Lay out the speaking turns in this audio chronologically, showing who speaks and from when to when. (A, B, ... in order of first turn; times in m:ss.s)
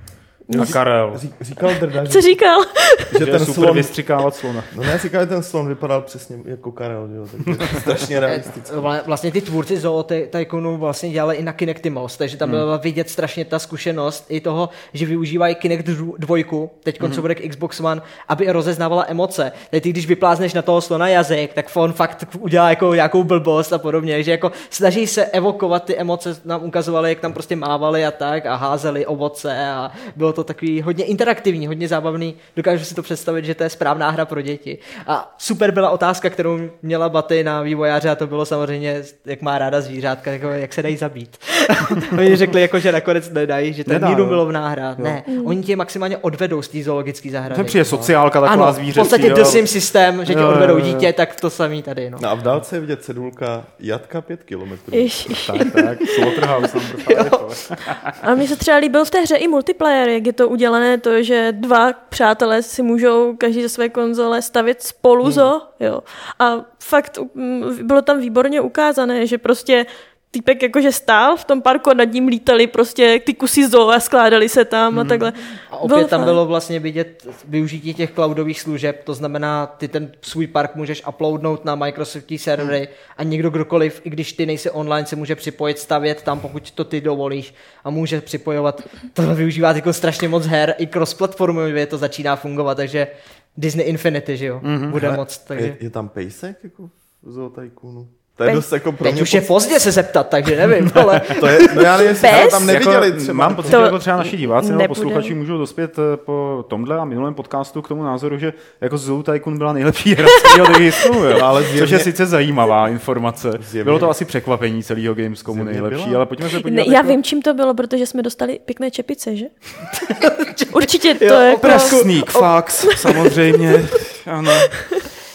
0:00.5-0:00.8 A
0:00.5-0:02.4 B
0:00.5-0:01.2 C
0:02.0-0:03.1 A
0:03.1-0:04.0 B
0:03.2-0:04.8 C
0:04.7-0:08.8 B
0:07.5-0:07.9 C
0:08.2-0:52.2 D
0:12.4-0:12.7 C
0:17.0-0:17.2 C
0:43.8-0:44.4 C
0:45.3-0:45.6 A
0:47.4-0:51.1 C
0:52.2-0:55.3 B
0:54.9-0:55.8 A
0:55.3-0:58.3 C
0:55.6-0:57.5 D
0:58.2-1:16.4 A
1:14.9-1:15.3 C
1:15.7-1:35.8 D
1:34.6-1:35.0 C
1:35.0-1:39.5 B
1:39.0-1:42.4 D
1:41.0-1:41.3 C
1:41.3-1:43.8 B
1:42.2-1:42.8 A
1:42.6-1:57.2 C
1:43.7-1:45.3 A
1:51.3-1:52.1 B
1:53.6-1:54.1 B
1:55.5-1:56.2 B
1:56.5-1:59.5 A
2:00.0-2:03.3 D
2:00.7-2:02.0 A
2:01.6-2:04.8 C